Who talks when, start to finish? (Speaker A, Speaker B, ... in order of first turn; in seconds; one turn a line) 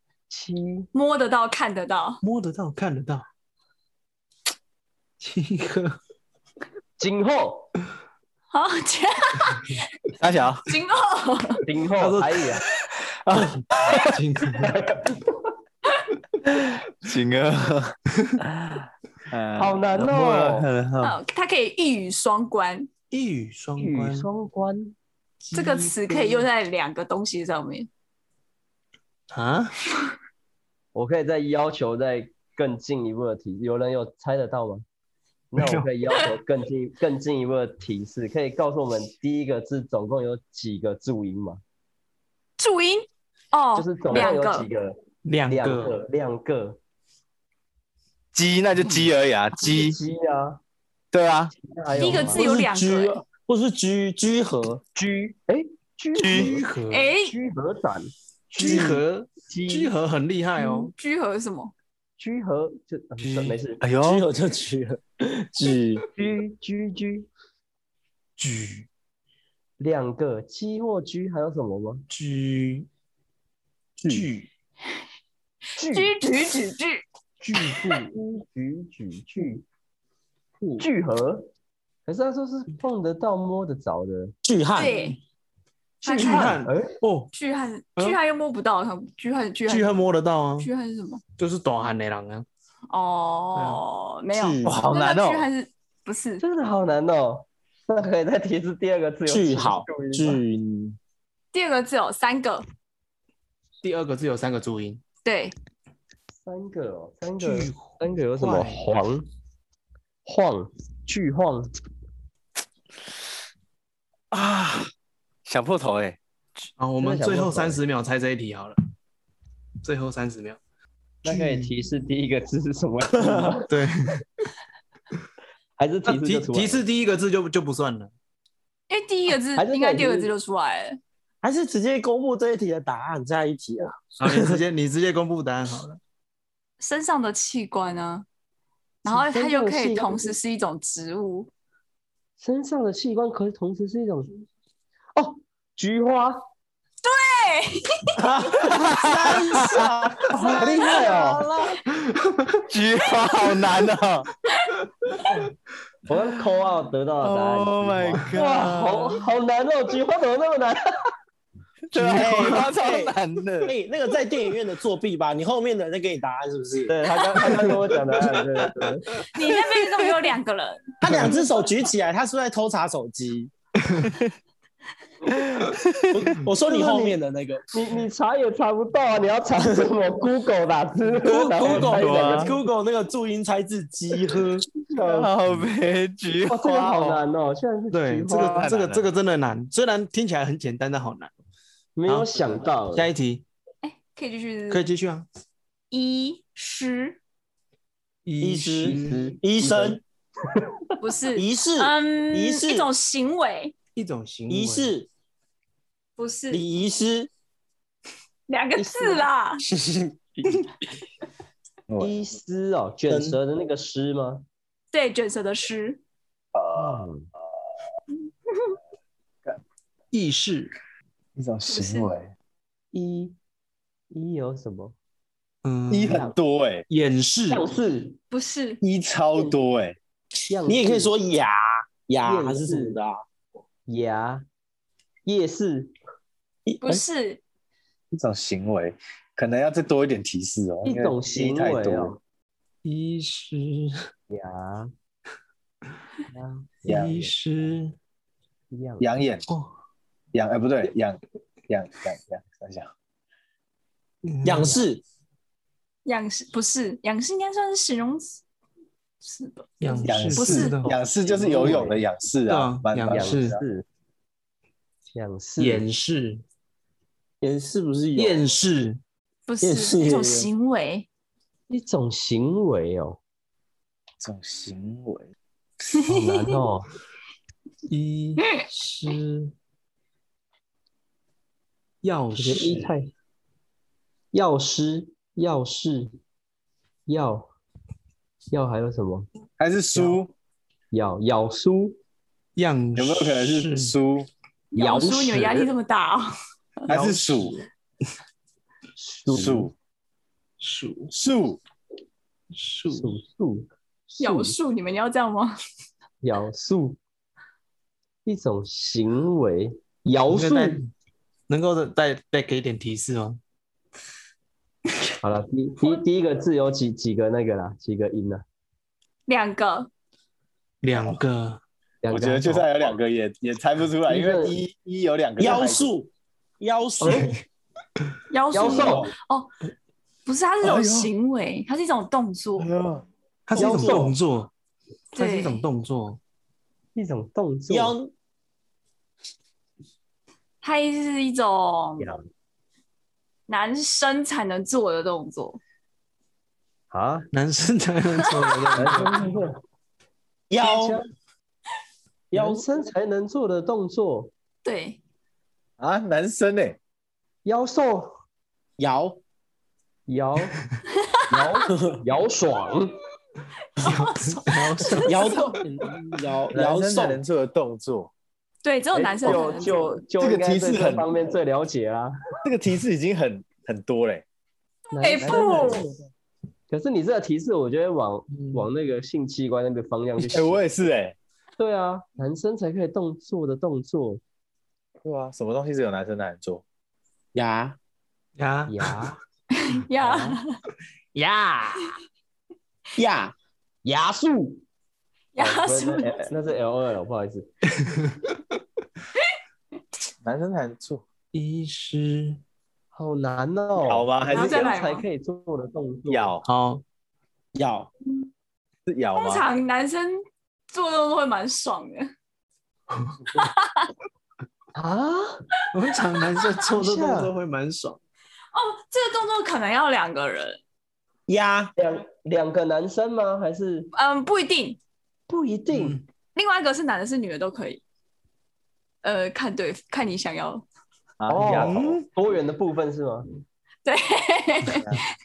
Speaker A: 0.3-0.9
Speaker B: 0.9-2.2
Speaker C: 2.2-3.2
Speaker C: 5.2-6.0
Speaker A: 7.0-7.7
Speaker B: 8.5-9.7
Speaker D: 10.2-10.6
Speaker B: 10.7-11.6
Speaker A: 11.7-12.6
Speaker C: 12.0-12.5
Speaker D: 13.2-14.1
Speaker C: 13.4-14.8
Speaker A: 14.6-15.5
Speaker D: 16.4-21.2
Speaker A: 19.6-20.7
Speaker B: 21.0-22.9
Speaker C: 23.1-24.3
Speaker A: 23.8-24.9
Speaker C: 25.4-26.4
Speaker B: 25.5-27.9
Speaker C: 29.3-29.7
Speaker A: 30.9-34.8
Speaker A: 35.5-41.6
Speaker C: 35.5-35.9
Speaker B: 42.6-44.7
Speaker A: 43.7-46.8
Speaker C: 45.2-46.0
Speaker D: 48.3-50.0
Speaker A: 49.6-50.6
Speaker D: 51.1-51.5
Speaker A: 51.5-52.4
Speaker B: 51.9-53.2
Speaker E: 52.2-54.8
Speaker A: 54.9-56.6
Speaker D: 56.1-56.5
Speaker C: 56.2-57.1
Speaker B: 56.9-57.3
Speaker A: 57.2-59.9
Speaker C: 58.6-60.9
Speaker B: 60.6-61.7
Speaker A: 62.2-63.8
Speaker C: 63.2-63.6
Speaker D: 63.8-64.2
Speaker E: 64.0-66.0
Speaker A: 66.2-67.3
Speaker C: 68.4-68.9
Speaker A: 69.8-72.0
Speaker C: 72.1-72.9
Speaker E: 74.0-74.4
Speaker C: 74.1-74.4
Speaker A: 75.8-76.2
Speaker B: 75.9-77.0
Speaker A: 77.4-79.6
Speaker C: 80.6-80.8
Speaker A: 80.8-81.5
Speaker A: 82.0-84.3
Speaker E: 84.4-85.0
Speaker B: 84.7-85.2
Speaker A: 86.0-86.9
Speaker B: 86.0-86.6
Speaker C: 86.1-87.3
Speaker B: 87.3-90.0
Speaker C: 89.7-90.7
Speaker B: 90.6-91.2
Speaker C: 91.4-92.5
Speaker B: 92.9-96.4
Speaker C: 93.6-93.8
Speaker E: 94.3-94.8
Speaker D: 94.6-95.5
Speaker A: 96.4-100.4
Speaker E: 99.3-101.0
Speaker B: 101.5-102.6
Speaker C: 103.8-105.0
Speaker B: 105.2-105.5
Speaker A: 106.3-109.2
Speaker C: 107.4-108.8
Speaker A: 110.2-111.7
Speaker D: 114.3-114.9
Speaker D: 115.5-116.2
Speaker C: 116.8-118.8
Speaker A: 117.0-117.8
Speaker C: 119.8-120.6
Speaker C: 121.2-121.7
Speaker A: 121.2-123.7
Speaker C: 123.7-124.2
Speaker A: 125.8-126.8
Speaker C: 126.0-128.1
Speaker B: 128.9-131.0
Speaker A: 129.6-130.3
Speaker E: 131.4-134.6
Speaker C: 134.2-136.0
Speaker B: 136.8-138.2
Speaker B: 139.0-141.5
Speaker A: 139.0-140.3
Speaker A: 142.4-144.3
Speaker A: 145.2-146.4
Speaker B: 147.0-148.1
Speaker E: 148.2-151.8
Speaker D: 148.5-151.4
Speaker B: 149.5-149.8
Speaker B: 150.7-151.1
Speaker C: 152.1-152.6
Speaker D: 152.7-154.3
Speaker B: 154.6-155.3
Speaker A: 156.1-160.8
Speaker D: 157.2-159.2
Speaker D: 161.9-163.7
Speaker E: 161.9-163.1
Speaker E: 163.6-166.9
Speaker A: 166.9-169.2
Speaker B: 169.3-170.8
Speaker E: 171.0-173.5
Speaker C: 171.1-171.3
Speaker D: 174.0-174.3
Speaker D: 175.3-176.2
Speaker E: 176.1-177.6
Speaker A: 176.6-177.2
Speaker A: 177.7-182.6
Speaker E: 181.2-184.7
Speaker D: 181.9-182.5
Speaker D: 184.9-187.2
Speaker A: 184.9-185.3
Speaker A: 186.5-188.7
Speaker C: 187.9-191.3
Speaker D: 188.3-189.1
Speaker A: 191.9-193.1
Speaker C: 192.1-193.4
Speaker B: 193.8-194.8
Speaker C: 194.7-195.2
Speaker B: 195.9-197.2
Speaker C: 198.2-199.3
Speaker E: 198.4-200.0
Speaker A: 198.8-200.0
Speaker B: 201.0-203.7
Speaker E: 201.3-202.9
Speaker C: 203.9-204.9
Speaker E: 204.5-205.1
Speaker B: 206.2-206.6
Speaker E: 206.5-207.3
Speaker B: 208.5-209.6
Speaker A: 208.8-209.2
Speaker E: 209.7-210.1
Speaker D: 211.9-212.1
Speaker A: 212.0-214.4
Speaker C: 213.1-213.4
Speaker B: 214.9-216.0
Speaker D: 216.5-217.1
Speaker A: 216.7-217.3
Speaker C: 220.1-220.7
Speaker D: 221.3-222.3
Speaker B: 221.7-222.1
Speaker A: 222.9-223.3
Speaker A: 224.1-224.9
Speaker C: 225.6-226.3
Speaker D: 225.9-226.8
Speaker C: 226.9-227.7
Speaker A: 227.5-228.2
Speaker B: 228.3-228.8
Speaker D: 228.8-230.0
Speaker A: 230.5-231.1
Speaker E: 230.7-233.2
Speaker A: 232.2-233.0
Speaker A: 233.9-234.4
Speaker A: 235.2-235.9
Speaker E: 236.7-237.0
Speaker B: 236.8-237.4
Speaker D: 238.1-242.2
Speaker A: 240.8-242.2
Speaker C: 242.8-244.0
Speaker A: 244.3-244.9
Speaker A: 246.4-247.3
Speaker D: 246.9-247.2
Speaker C: 246.9-247.9
Speaker A: 248.7-249.1
Speaker D: 249.0-249.4
Speaker D: 250.3-252.9
Speaker C: 254.2-254.8
Speaker E: 254.4-255.0
Speaker B: 256.0-258.4
Speaker B: 259.2-260.9
Speaker C: 259.8-260.9
Speaker D: 260.0-263.6
Speaker A: 261.1-262.0
Speaker C: 262.5-263.6
Speaker A: 263.1-263.8
Speaker A: 265.1-265.8
Speaker C: 265.6-266.4
Speaker E: 267.4-268.5
Speaker C: 268.1-269.0
Speaker B: 269.5-271.1
Speaker E: 269.6-270.5
Speaker A: 271.7-273.2
Speaker D: 274.2-275.3
Speaker B: 275.9-276.6
Speaker A: 276.0-276.9
Speaker C: 277.9-279.5
Speaker C: 282.0-282.9
Speaker A: 282.4-283.1
Speaker A: 284.3-286.1
Speaker A: 287.1-287.5
Speaker A: 288.5-289.3
Speaker D: 289.6-290.3
Speaker A: 290.9-292.0
Speaker C: 292.6-293.9
Speaker D: 292.9-294.3
Speaker B: 294.7-296.3
Speaker A: 294.8-295.7
Speaker D: 296.9-297.6
Speaker C: 296.9-297.6
Speaker A: 299.0-299.7
Speaker D: 299.2-299.7
Speaker C: 300.6-301.1
Speaker D: 301.1-301.6
Speaker C: 302.5-303.1
Speaker A: 302.9-304.6
Speaker B: 304.2-305.6
Speaker A: 306.2-307.0
Speaker A: 308.2-310.8
Speaker C: 310.3-310.9
Speaker C: 311.5-313.4
Speaker A: 315.2-318.4
Speaker B: 319.3-319.9
Speaker C: 320.8-321.6
Speaker D: 320.9-321.2
Speaker A: 322.0-322.6
Speaker D: 322.1-325.9
Speaker A: 324.1-324.6
Speaker E: 325.4-327.4
Speaker A: 327.0-327.3
Speaker B: 328.3-329.5
Speaker A: 328.5-329.1
Speaker B: 330.2-332.7
Speaker D: 330.6-331.1
Speaker D: 332.6-333.0
Speaker C: 333.5-334.5
Speaker A: 333.6-334.2
Speaker C: 335.1-336.2
Speaker B: 335.1-335.6
Speaker A: 336.9-337.9
Speaker E: 337.7-338.1
Speaker B: 340.6-342.1
Speaker B: 343.5-345.6
Speaker A: 346.9-347.3
Speaker C: 347.3-349.4
Speaker B: 348.4-348.7
Speaker A: 348.8-349.6
Speaker E: 350.5-351.0
Speaker A: 350.6-351.1
Speaker E: 352.3-352.6
Speaker A: 352.3-354.3
Speaker B: 354.6-355.0
Speaker D: 355.8-356.8
Speaker A: 357.4-358.1
Speaker E: 358.8-359.2
Speaker A: 360.1-360.6
Speaker B: 361.0-361.7
Speaker A: 361.3-363.0
Speaker E: 361.7-362.0
Speaker B: 363.7-365.6
Speaker C: 363.8-365.2
Speaker E: 365.1-367.2
Speaker D: 366.5-368.1
Speaker B: 368.6-370.0
Speaker A: 368.9-372.1
Speaker D: 370.2-371.1
Speaker D: 372.4-374.2
Speaker A: 374.9-375.8
Speaker B: 375.0-376.0
Speaker D: 375.2-375.9
Speaker A: 376.7-380.6
Speaker C: 378.3-378.6
Speaker D: 380.3-381.1
Speaker A: 381.6-384.2
Speaker D: 385.0-386.6
Speaker E: 387.3-387.8
Speaker C: 388.4-389.0
Speaker A: 388.7-389.2
Speaker B: 389.5-390.6
Speaker A: 390.0-390.4
Speaker E: 391.1-391.9
Speaker E: 393.0-393.3
Speaker E: 393.8-394.6
Speaker B: 395.3-396.2
Speaker A: 395.4-397.5
Speaker C: 397.8-398.2
Speaker D: 400.2-401.0
Speaker C: 401.3-402.4
Speaker A: 402.9-406.4
Speaker D: 403.8-404.7
Speaker B: 404.3-405.0
Speaker D: 406.1-406.4
Speaker C: 406.4-406.8
Speaker E: 407.5-407.9
Speaker D: 408.9-409.5
Speaker B: 409.1-410.2
Speaker B: 410.7-412.1
Speaker C: 412.9-413.2
Speaker B: 413.3-413.9
Speaker A: 414.7-415.4
Speaker C: 415.7-418.0
Speaker A: 416.7-417.3
Speaker B: 418.5-420.6
Speaker E: 421.3-421.7
Speaker A: 421.8-423.9
Speaker B: 423.9-424.8
Speaker A: 425.3-426.0
Speaker C: 425.7-426.0
Speaker B: 426.3-427.8
Speaker B: 429.0-430.6
Speaker D: 431.2-432.0
Speaker A: 431.3-433.2
Speaker C: 431.4-432.1
Speaker B: 433.8-435.0